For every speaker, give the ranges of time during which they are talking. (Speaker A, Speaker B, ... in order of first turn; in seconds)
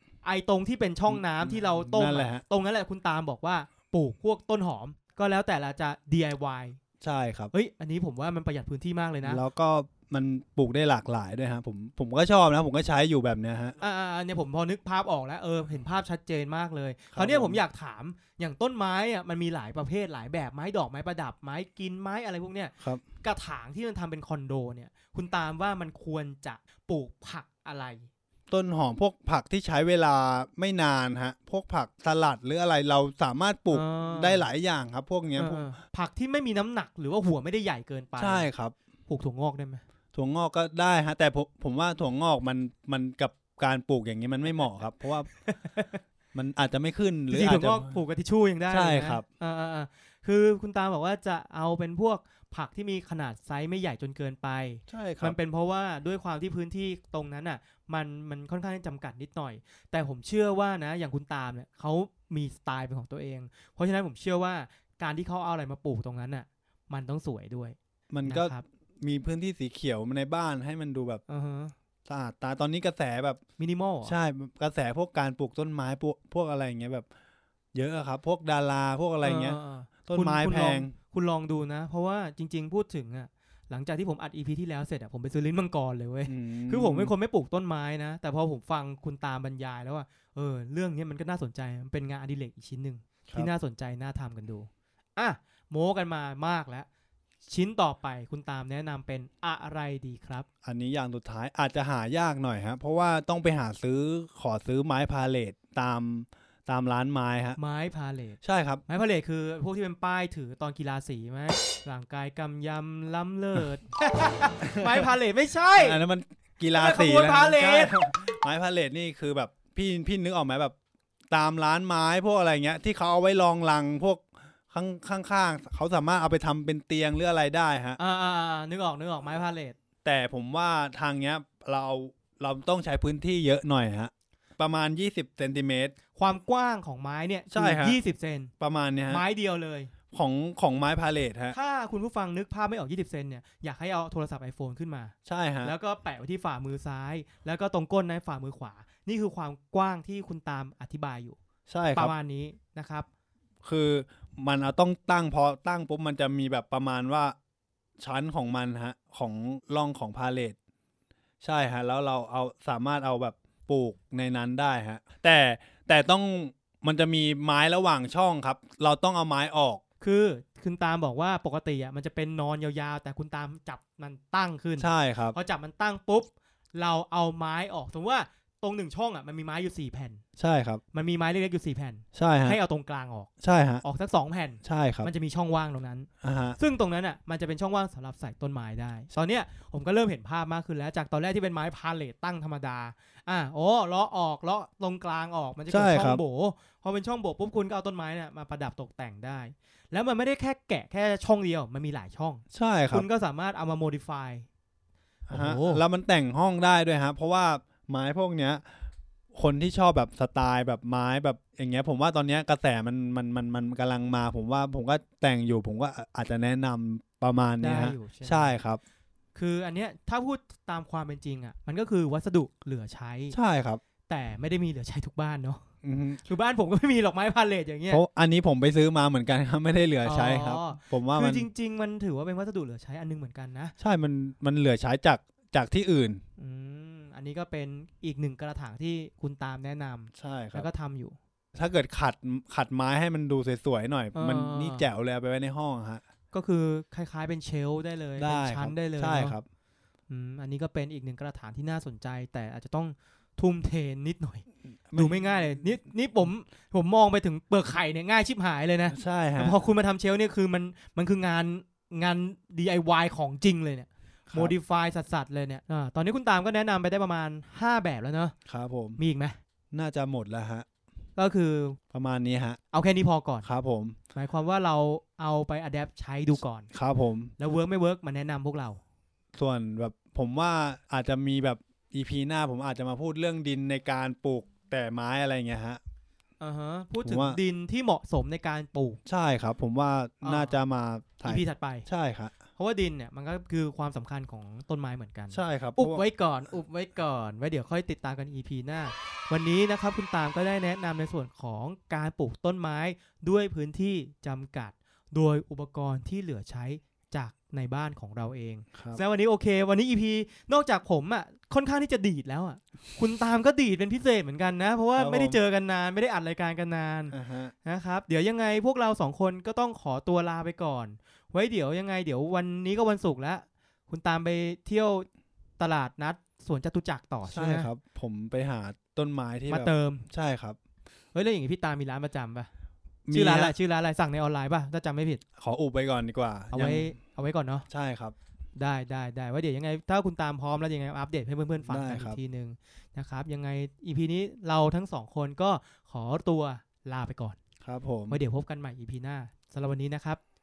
Speaker A: 0.2-6.8, 7.5-9.4, 13.8-28.1, 33.7-34.5, 35.4-38.5, 39.1-39.8, 45.4-46.0, 47.3-68.7, 71.3-71.7, 73.6-74.2, 79.2-96.9, 97.5-100.5, 107.6-116.0, 116.7-118.0, 128.0-129.8, 136.2-138.5, 139.1-139.9, 141.5-151.4, 151.9-153.1, 170.0-180.2, 180.9-183.3, 183.8-204.5, 205.3-205.8, 217.6-218.6, 219.3-223.4, 224.1-225.6, 226.2-228.0, 230.0-233.8, 236.4-241.2, 244.1-244.9, 246.3-249.4, 250.1-268.3, 269.0-269.4, 271.2-271.8, 272.7-273.5, 274.1-276.7, 277.4-278.8, 286.4-289.0, 290.2-290.6, 291.2-291.9, 292.6-325.1, 325.6-327.7, 329.5-330.1, 331.1-332.5, 333.1-335.2, 336.5-337.7, 338.6-347.4, 348.1-350.2
Speaker B: 1.1-2.4, 7.0-7.5, 9.2-13.8, 17.1-17.6, 28.5-35.7, 38.2-38.7, 40.1-45.3, 46.3-47.9, 48.7-49.2, 54.9-55.4, 68.1-71.2, 72.1-73.4, 74.0-77.1, 77.7-80.9, 86.3-87.1, 100.7-107.6, 108.4-108.8, 114.6-115.1, 115.8-120.8, 121.3-128.0, 130.0-135.9, 137.5-138.0, 138.6-139.2, 140.1-141.6, 145.3-145.8, 151.7-152.1, 153.6-157.3, 158.0-160.6, 161.4-169.8, 174.8-175.4, 180.4-180.8, 182.1-182.6, 183.4-183.8, 184.6-185.1, 186.2-186.6, 195.7-196.2, 202.5-203.1, 205.3-208.6, 209.3-218.8, 223.3-223.8, 225.8-226.2, 227.9-231.5, 233.8-236.2, 240.1-240.7, 241.6-246.0, 248.2-249.4, 254.9-255.7, 258.9-259.6, 264.3-264.6, 268.5-269.0, 269.7-270.7, 271.9-272.6, 273.4-274.0, 276.7-277.3, 279.4-285.8, 287.0-287.4, 289.1-292.3, 295.3-296.0, 308.8-309.0, 314.9-315.4, 317.1-317.5, 327.3-330.6, 333.1-333.6, 335.4-336.9, 337.7-338.1, 341.6-342.2, 347.6-348.2